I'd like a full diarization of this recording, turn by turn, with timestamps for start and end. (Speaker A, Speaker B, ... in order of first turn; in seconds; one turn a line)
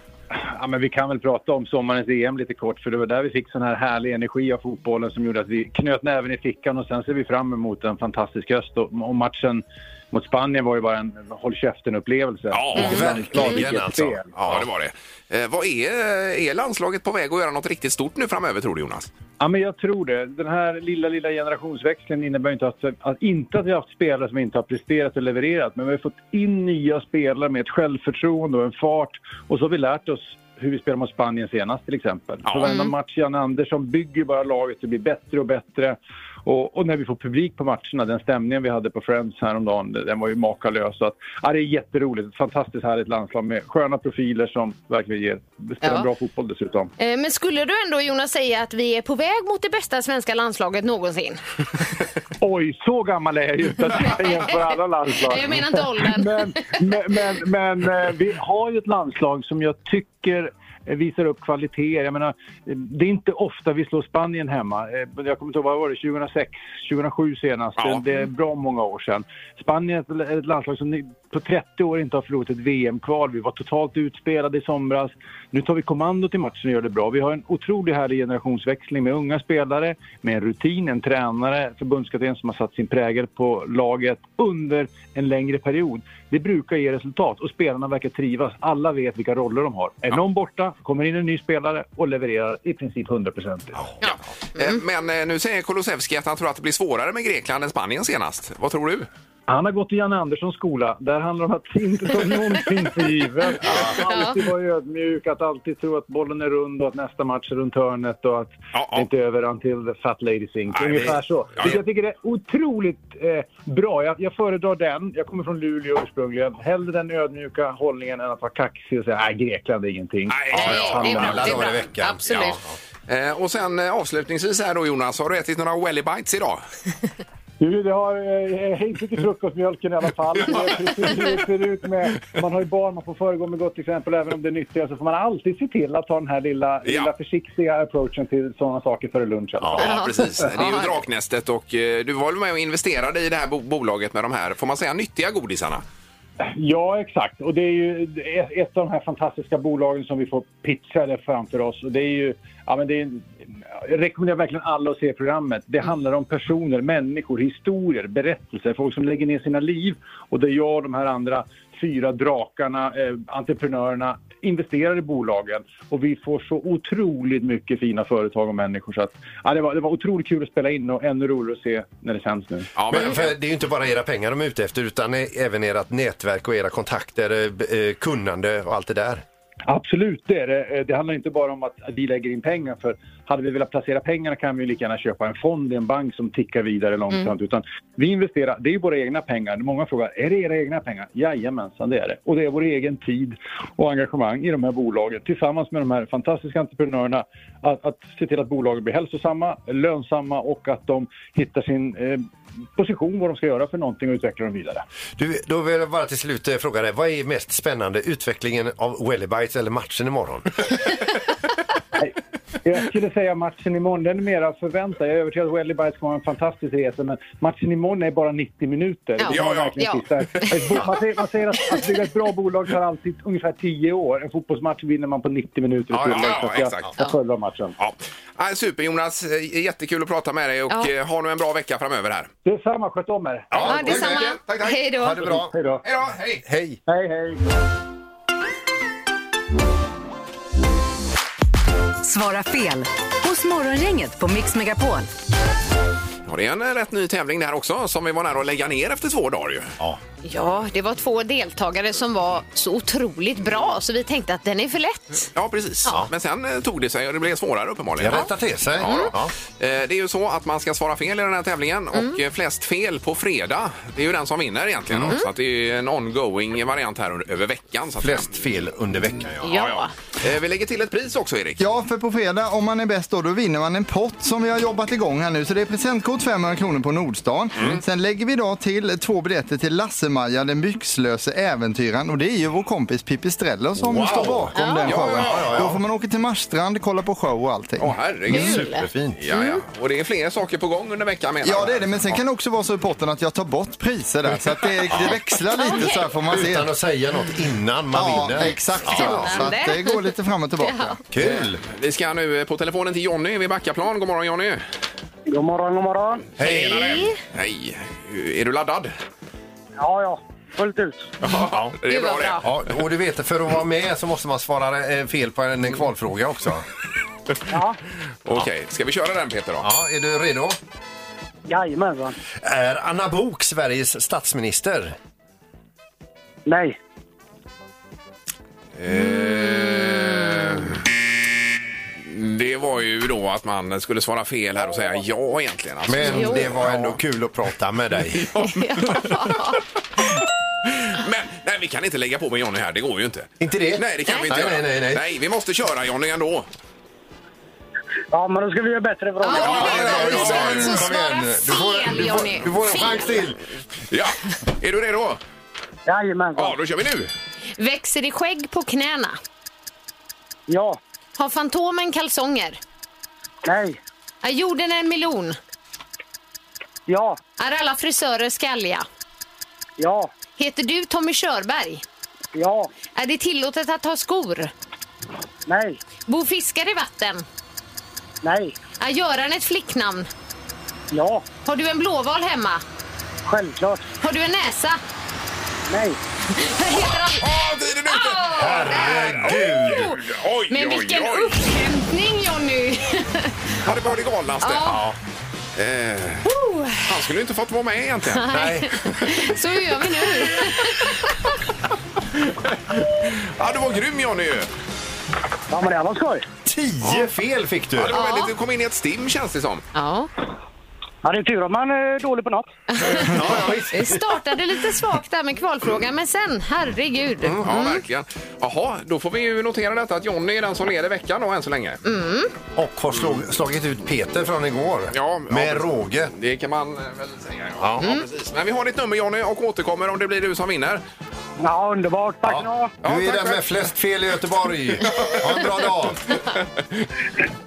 Speaker A: 0.3-14.3
Speaker B: 12.5-13.7
Speaker C: 12.7-14.7
Speaker B: 14.4-19.1
Speaker A: 19.4-46.9
Speaker B: 32.4-32.8
Speaker D: 32.6-32.9
Speaker D: 47.0-51.4
Speaker A: 52.4-93.8
Speaker D: 54.0-54.4
Speaker D: 55.2-56.8
Speaker D: 94.0-94.8
Speaker B: 94.0-99.1
Speaker A: 99.5-121.6
Speaker C: 103.6-104.0
Speaker D: 104.1-104.4
Speaker B: 108.7-109.1
Speaker B: 110.7-111.8
Speaker C: 110.9-111.7
Speaker B: 120.3-121.7
Speaker C: 120.5-122.7
Speaker D: 120.5-122.6
Speaker B: 122.3-126.6
Speaker A: 127.6-139.8
Speaker B: 130.4-131.2
Speaker B: 136.8-137.1
Speaker C: 139.6-139.9
Speaker B: 139.7-145.8
Speaker D: 139.8-140.9
Speaker A: 146.4-172.7
Speaker B: 172.8-173.4
Speaker C: 172.9-179.2
Speaker A: 179.7-202.2
Speaker A: 202.7-204.8
Speaker C: 205.2-210.5
Speaker A: 212.0-227.7
Speaker D: 219.2-220.8
Speaker B: 219.3-219.8
Speaker B: 220.3-220.9
Speaker B: 225.9-226.9
Speaker B: 227.8-232.3
Speaker A: 232.4-233.9
Speaker B: 233.5-236.4
Speaker C: 233.5-234.2
Speaker D: 233.6-235.2
Speaker C: 235.0-235.6
Speaker A: 235.3-235.8
Speaker C: 236.4-236.8
Speaker A: 236.9-237.4
Speaker E: 242.0-245.1
Speaker B: 246.2-249.7
Speaker D: 250.2-255.3
Speaker B: 255.3-268.5
Speaker C: 258.0-259.3
Speaker D: 258.8-259.1
Speaker C: 264.9-265.2
Speaker C: 268.0-269.5
Speaker D: 269.4-269.9
Speaker B: 269.4-271.6
Speaker F: 271.6-287.9
Speaker C: 283.8-285.8
Speaker D: 284.5-284.9
Speaker B: 284.9-285.5
Speaker B: 287.8-292.2
Speaker C: 288.3-289.2
Speaker D: 288.3-289.6
Speaker F: 291.4-296.7
Speaker C: 294.9-295.2
Speaker D: 295.6-296.1
Speaker C: 296.3-299.5
Speaker F: 297.9-301.0
Speaker D: 298.8-300.1
Speaker D: 300.6-301.0
Speaker C: 301.1-301.6
Speaker B: 301.6-304.6
Speaker G: 305.3-306.3
Speaker B: 306.4-308.9
Speaker C: 306.4-306.8
Speaker D: 306.4-307.2
Speaker G: 309.8-311.1
Speaker B: 311.2-312.6
Speaker C: 311.5-311.8
Speaker D: 311.9-312.4
Speaker C: 312.4-316.6
Speaker G: 317.5-317.8
Speaker B: 318.2-319.7
Speaker C: 319.6-320.6
Speaker G: 321.5-322.2
Speaker C: 322.4-324.9
Speaker G: 326.4-326.8
Speaker B: 328.8-330.8
Speaker D: 328.9-330.2
Speaker B: 332.0-337.0
Speaker C: 335.8-338.3
Speaker D: 336.0-336.5
Speaker B: 338.2-339.3
Speaker D: 338.4-339.6
Speaker B: 340.6-346.5
Speaker C: 343.4-345.0
Speaker G: 348.1-349.7
Speaker D: 349.2-353.2
Speaker B: 349.3-350.8
Speaker C: 349.4-353.4
Speaker B: 353.9-355.2
Speaker G: 355.9-356.6
Speaker B: 356.3-357.1
Speaker D: 357.6-359.2
Speaker G: 360.5-360.8
Speaker D: 361.2-362.6
Speaker G: 363.4-363.8
Speaker D: 364.2-365.4
Speaker G: 366.9-367.2
Speaker D: 367.4-368.9
Speaker G: 369.8-370.1
Speaker D: 370.4-371.8
Speaker G: 372.3-372.7
Speaker D: 372.9-374.5
Speaker G: 375.4-375.8
Speaker D: 376.1-377.2
Speaker G: 378.2-378.6
Speaker D: 378.8-380.1
Speaker G: 380.9-381.2
Speaker D: 381.4-382.6
Speaker G: 383.2-383.8
Speaker D: 384.0-384.8
Speaker G: 385.7-386.0
Speaker D: 386.3-387.3
Speaker B: 387.2-391.4
Speaker D: 387.9-393.6
Speaker C: 388.3-389.9
Speaker B: 393.6-394.8
Speaker D: 394.4-394.8
Speaker C: 394.6-394.9
Speaker B: 395.6-396.3
Speaker D: 396.2-396.9
Speaker B: 396.8-398.4
Speaker D: 398.1-401.0
Speaker C: 398.3-398.7
Speaker B: 402.2-404.5
Speaker G: 405.5-406.2
Speaker C: 406.4-408.0
Speaker B: 406.8-407.1
Speaker B: 407.8-409.6
Speaker D: 407.9-408.3
Speaker D: 409.7-410.1
Speaker G: 411.0-412.5
Speaker D: 412.8-417.8
Speaker C: 412.8-414.0
Speaker B: 413.1-413.6
Speaker B: 417.2-421.8
Speaker D: 421.8-422.3
Speaker C: 422.6-426.1
Speaker B: 424.9-430.8
Speaker C: 427.6-427.9
Speaker G: 431.4-432.7
Speaker C: 432.2-436.0
Speaker B: 432.8-433.5
Speaker B: 434.8-436.9